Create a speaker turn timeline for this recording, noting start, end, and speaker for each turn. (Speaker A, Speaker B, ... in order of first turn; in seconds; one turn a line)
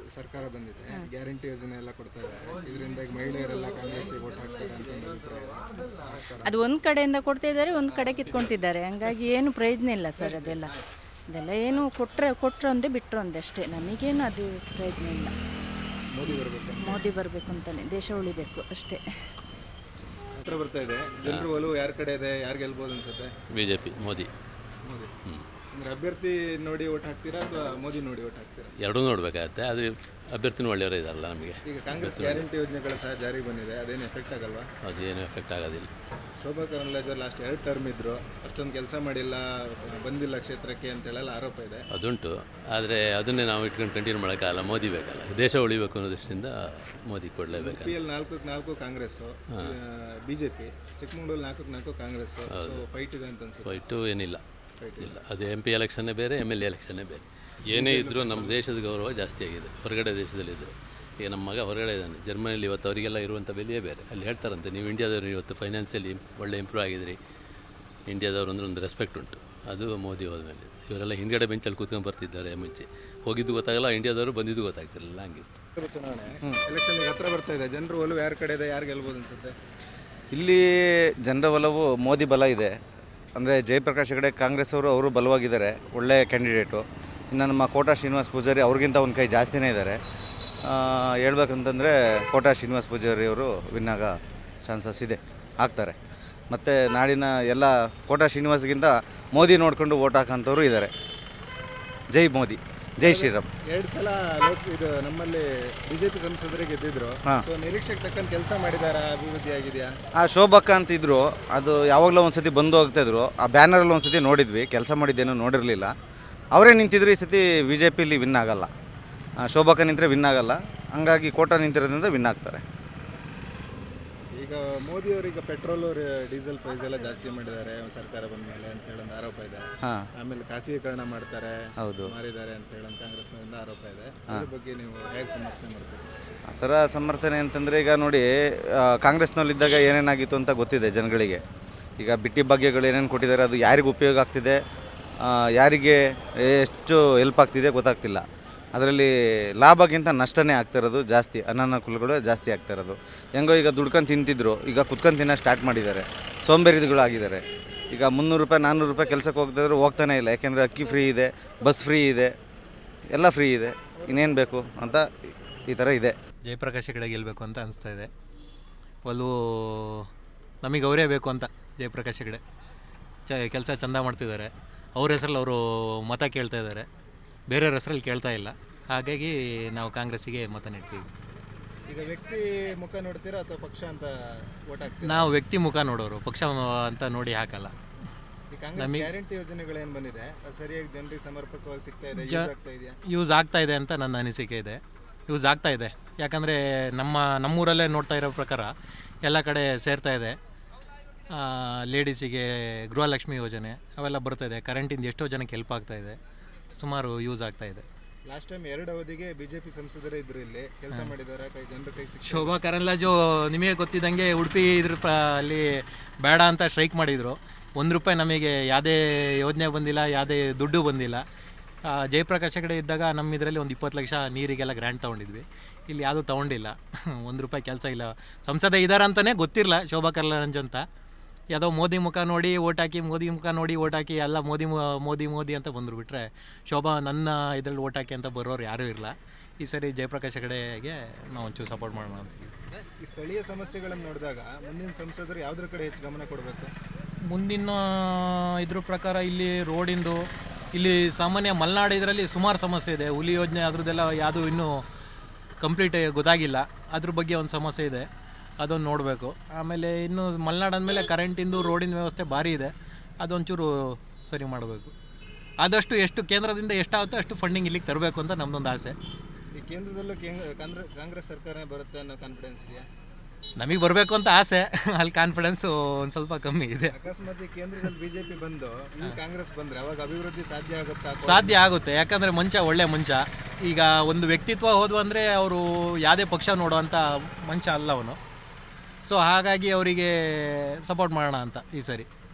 Speaker A: 0.2-6.5
Speaker B: 6.4-10.7
Speaker A: 10.2-10.5
Speaker B: 11.3-15.3
Speaker A: 16.1-17.0
Speaker B: 16.2-19.0
Speaker A: 20.4-23.3
Speaker C: 21.2-21.6
Speaker C: 23.5-24.3
Speaker A: 24.9-25.1
Speaker A: 25.7-28.7
Speaker C: 28.8-32.5
Speaker A: 31.6-34.6
Speaker C: 34.8-35.9
Speaker A: 36.4-41.8
Speaker C: 41.9-48.0
Speaker A: 47.5-53.8
Speaker C: 49.5-49.8
Speaker C: 52.5-52.8
Speaker C: 53.6-54.4
Speaker A: 54.8-55.1
Speaker C: 55.0-67.2
Speaker A: 57.7-58.6
Speaker C: 68.1-75.6
Speaker A: 75.8-79.5
Speaker D: 80.3-80.6
Speaker D: 81.2-82.7
Speaker D: 83.3-90.0
Speaker D: 90.7-94.1
Speaker D: 94.6-96.0
Speaker D: 96.5-100.9
Speaker D: 102.1-103.5
Speaker A: 103.0-109.9
Speaker D: 110.2-115.9
Speaker D: 116.5-118.7
Speaker D: 119.4-122.6
Speaker A: 124.3-129.6
Speaker A: 130.2-131.5
Speaker D: 131.8-132.1
Speaker A: 132.1-136.1
Speaker D: 136.5-138.2
Speaker D: 138.8-141.4
Speaker D: 142.0-144.6
Speaker D: 145.2-148.2
Speaker D: 148.7-149.1
Speaker D: 149.6-162.3
Speaker D: 163.1-165.1
Speaker D: 165.7-166.1
Speaker E: 166.5-168.1
Speaker E: 169.0-170.1
Speaker E: 170.6-172.4
Speaker E: 173.2-176.8
Speaker E: 177.5-181.1
Speaker A: 181.9-184.1
Speaker A: 184.7-185.3
Speaker E: 185.1-187.7
Speaker A: 188.5-192.9
Speaker E: 188.8-189.1
Speaker E: 192.2-192.5
Speaker E: 193.1-198.7
Speaker E: 199.2-200.4
Speaker E: 201.3-206.2
Speaker E: 206.8-207.8
Speaker A: 208.3-212.6
Speaker E: 212.2-221.2
Speaker E: 222.0-230.8
Speaker E: 231.5-242.3
Speaker A: 243.0-246.7
Speaker E: 247.3-254.8
Speaker E: 255.6-258.1
Speaker E: 258.6-264.9
Speaker E: 265.6-268.9
Speaker A: 269.5-272.9
Speaker E: 273.6-276.9
Speaker A: 276.9-281.6
Speaker E: 281.2-288.2
Speaker E: 289.0-292.1